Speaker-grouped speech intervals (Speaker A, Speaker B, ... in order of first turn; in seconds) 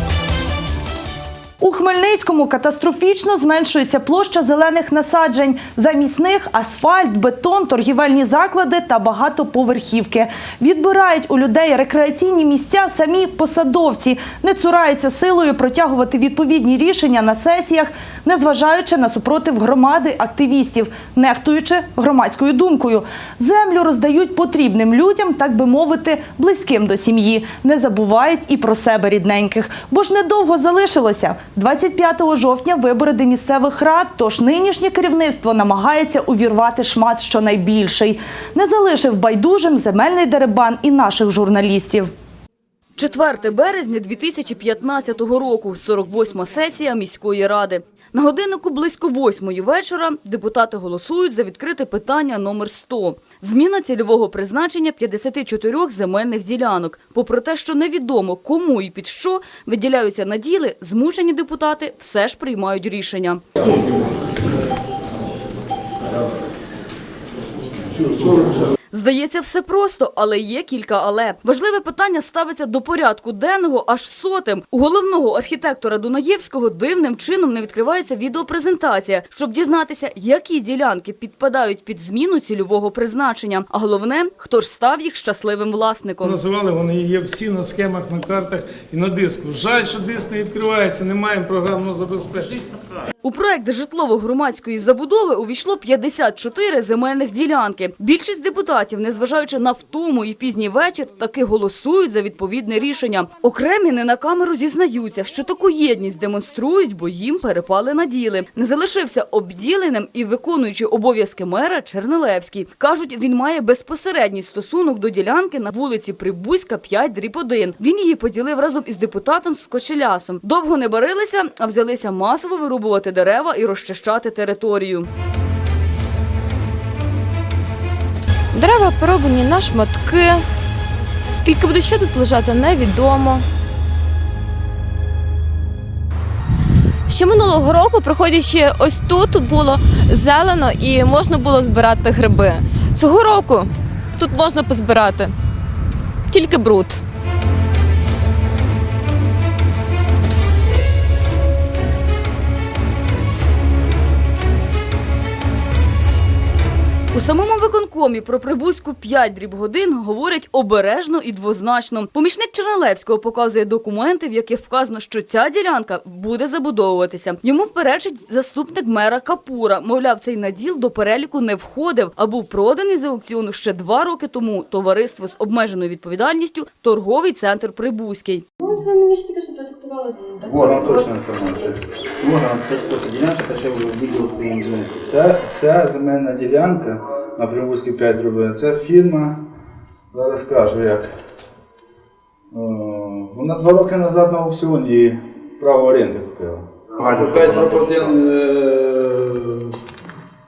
Speaker A: 1.6-42.1
Speaker B: 43.0-63.4, 68.9-86.4, 93.2-125.1, 157.1-178.5
Speaker C: 86.2-92.7
Speaker D: 128.6-130.4, 131.3-133.4, 137.1-145.3, 146.3-147.0, 178.6-181.2
Speaker E: 180.4-181.8, 185.0-189.4, 190.1-191.1, 192.5-199.7
Speaker F: 182.2-185.1